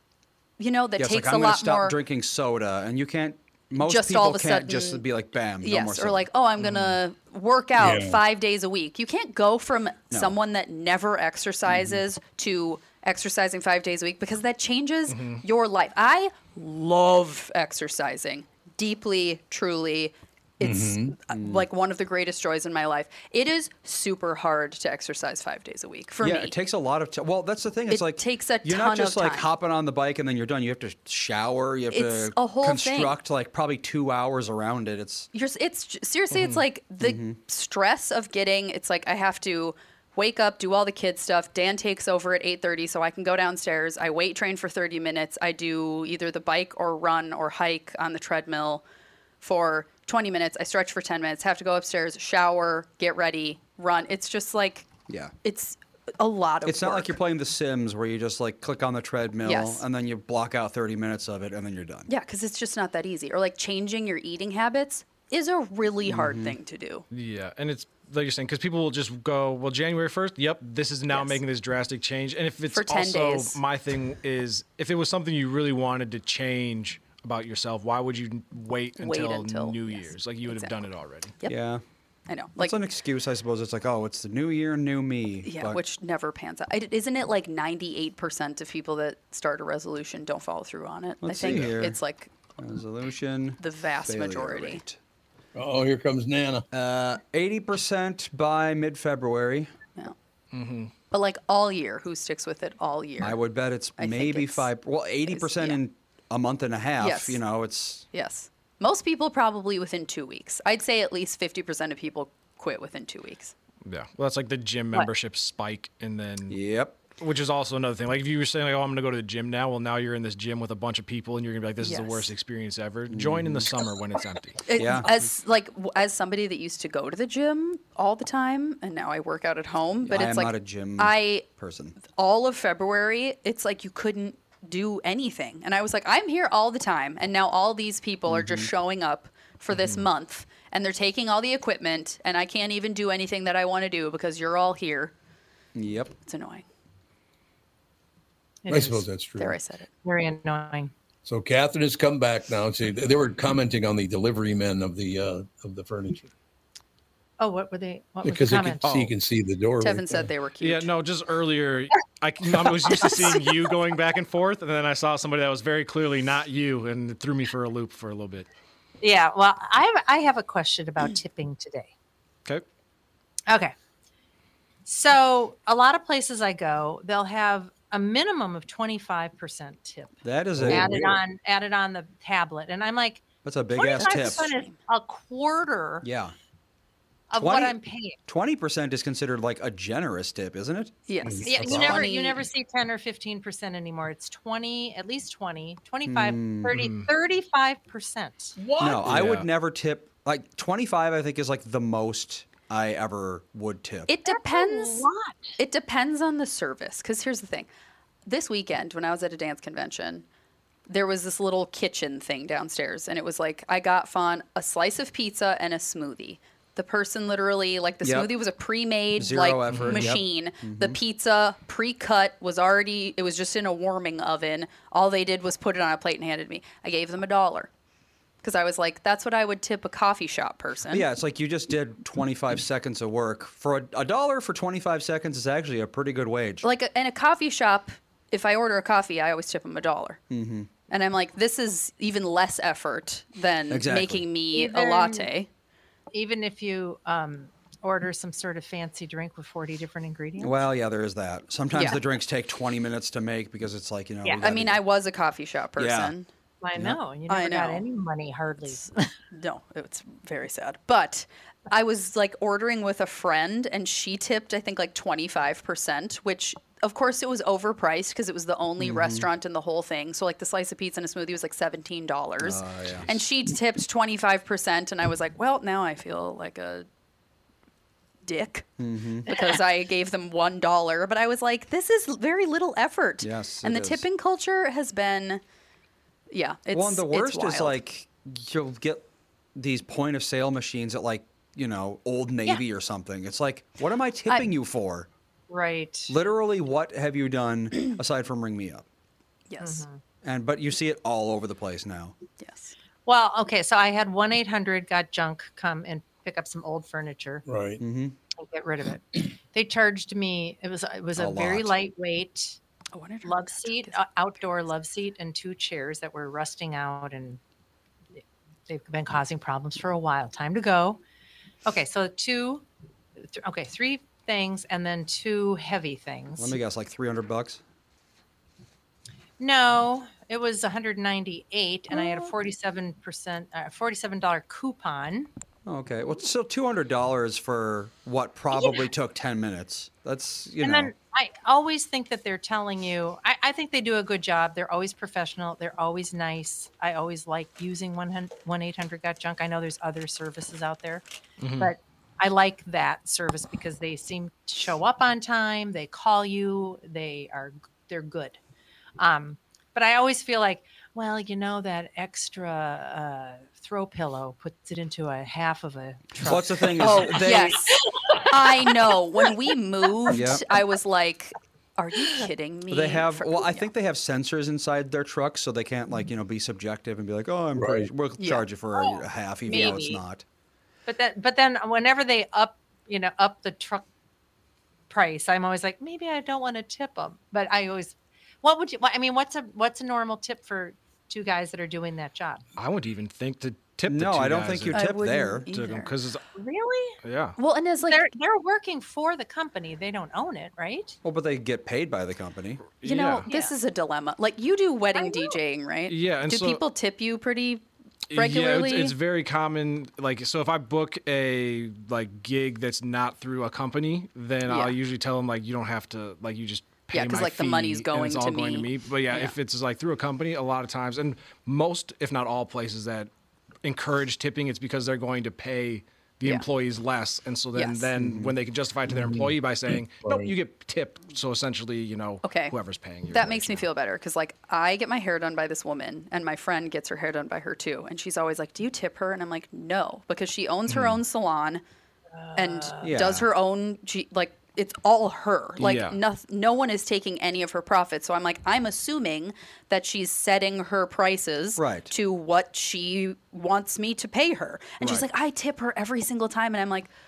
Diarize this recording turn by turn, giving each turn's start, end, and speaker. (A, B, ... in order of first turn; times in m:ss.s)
0:00.6-0:02.0 A
0:01.0-0:06.3 B
0:03.8-0:05.0 A
0:05.6-0:26.6 A
0:06.6-0:07.0 C
0:07.8-0:08.2 D
0:10.1-0:10.4 B
0:11.7-0:12.0 B
0:15.1-0:15.4 C
0:20.6-0:21.2 D
0:21.3-0:21.7 B
0:26.2-0:35.3 B
0:27.9-0:29.5 A
0:31.9-0:33.2 A
0:35.3-0:48.8 A
0:36.3-0:36.6 C
0:37.0-0:37.4 B
0:49.4-0:54.9 A
0:55.1-0:55.3 B
0:55.4-0:57.2 A
0:56.6-1:02.1 B
0:59.4-0:59.8 A
1:02.1-1:07.0 A
1:06.0-1:06.6 B
1:07.1-1:21.3 C
1:11.1-1:11.4 A
1:12.7-1:13.6 A
1:19.0-1:20.8 A
1:21.5-1:21.8 B
1:22.3-1:22.8 A
1:22.6-1:25.8 B
1:25.4-1:32.3 A
1:31.2-1:32.0 B
1:32.6-1:35.0 B
1:33.6-1:34.8 A
1:35.6-1:36.6 D
1:36.7-1:39.7 B
1:40.5-1:40.9 C
1:41.1-1:43.4 A
1:43.2-1:48.1 B
1:44.0-1:44.7 A
1:45.3-1:45.8 A
1:47.0-1:47.4 A
1:48.1-1:53.5 A
1:53.8-1:56.6 C
1:56.5-1:57.0 B
1:57.2-2:04.6 C
2:01.8-2:02.3 A
2:03.1-2:03.7 B
2:04.7-2:11.4 A
2:04.8-2:05.3 B
2:10.1-2:12.0 B
2:12.0-2:25.1 A
2:18.3-2:18.7 B
2:19.7-2:20.1 C
2:25.8-2:26.1 B
2:26.3-2:26.6 A
2:28.6-2:29.1 E
2:28.7-2:29.6 D
2:29.4-2:29.9 A
2:30.0-2:30.9 E
2:31.2-2:36.3 D
2:37.4-2:38.8 E
2:38.2-2:40.1 D
2:38.8-2:39.1 C
2:39.8-2:40.9 A
2:40.6-2:48.5 C
2:49.0-2:51.9 E
2:53.5-2:53.7 E
2:54.8-3:06.1 E
3:00.2-3:01.2 B
3:00.6-3:01.1 D
3:03.4-3:04.5 B
3:03.9-3:04.8 A
3:06.0-3:06.4 B
3:07.3-3:08.2 E
3:07.4-3:10.9 B
3:11.1-3:12.4 A
3:11.2-3:12.1 D
3:11.5-3:18.6 E
3:16.0-3:16.8 B
3:16.7-3:17.1 C
3:18.8-3:19.2 D
3:18.8-3:24.1 B
3:19.0-3:19.5 C
3:24.1-3:25.1 A
3:24.2-3:25.6 E
3:25.6-3:27.7 A
3:28.3-3:30.3 A
3:30.9-3:47.7 A
3:38.0-3:38.3 B
3:39.2-3:41.0 B
3:39.7-3:40.1 C
3:48.4-3:51.1 A
3:50.9-3:56.7 B
3:56.6-4:00.2 A
4:00.3-4:00.7 B
4:00.9-4:05.5 A
4:03.7-4:04.3 B
4:04.5-4:05.3 E
4:06.1-4:10.6 E
4:10.4-4:14.8 B
4:11.7-4:12.0 A
4:14.4-4:16.3 A
4:15.8-4:16.1 B
4:16.6-4:19.1 E
4:17.3-4:17.8 A
4:19.3-4:36.9 A
4:28.8-4:29.3 B
4:32.4-4:33.1 B
4:38.2-4:38.7 A
4:38.8-4:39.3 B
4:39.3-4:45.4 A
4:43.2-4:44.0 B
4:46.3-4:47.8 A
4:46.7-4:55.1 B
4:55.5-4:56.1 E
4:56.1-4:58.9 B
4:59.5-4:59.9 A
4:59.6-5:00.0 E
5:00.2-5:02.2 B
5:02.4-5:02.8 A
5:03.1-5:07.4 E
5:07.5-5:07.8 D
5:07.8-5:08.2 B
5:08.3-5:12.6 E
5:11.2-5:11.8 B
5:12.9-5:14.0 A
5:13.2-5:17.4 E
5:18.7-5:21.0 E
5:21.6-5:22.6 E
5:23.2-5:26.6 E
5:26.4-5:27.6 B
5:29.4-5:35.3 E
5:35.7-5:40.9 B
5:40.6-5:51.0 E
5:51.4-5:51.7 C
5:51.6-5:58.4 E
5:59.0-6:08.7 E
6:06.2-6:07.7 B
6:06.8-6:13.7 A
6:10.1-6:10.5 B
6:12.7-6:20.2 B
6:17.6-6:17.9 D
6:18.2-6:18.5 A
6:18.8-6:20.0 E
6:19.5-6:19.8 A
6:20.9-6:23.9 E
6:24.9-6:32.4 E
6:32.6-6:34.9 C
6:33.9-6:35.5 B
6:34.7-6:35.9 A
6:35.5-6:36.2 C
6:36.3-6:37.0 E
6:37.0-6:37.4 C
6:37.4-6:38.1 A
6:37.9-6:41.0 E
6:41.0-6:42.6 B
6:42.8-6:43.3 C
6:42.8-6:49.0 A
6:43.3-6:43.5 E
6:45.0-6:45.4 E
6:45.9-6:46.6 C
6:48.1-7:03.1 C
6:54.5-6:54.8 A
6:56.9-6:59.3 A
7:03.6-7:13.7 C
7:07.6-7:07.9 A
7:08.0-7:08.4 B
7:08.9-7:09.3 D
7:10.0-7:10.3 D
7:12.2-7:12.6 A
7:13.1-7:21.6 A
7:20.7-7:21.0 C
7:22.1-7:22.9 E
7:22.4-7:36.9 A
7:22.8-7:23.3 B
7:25.6-7:26.0 C
7:31.6-7:31.9 B
7:34.8-7:35.1 C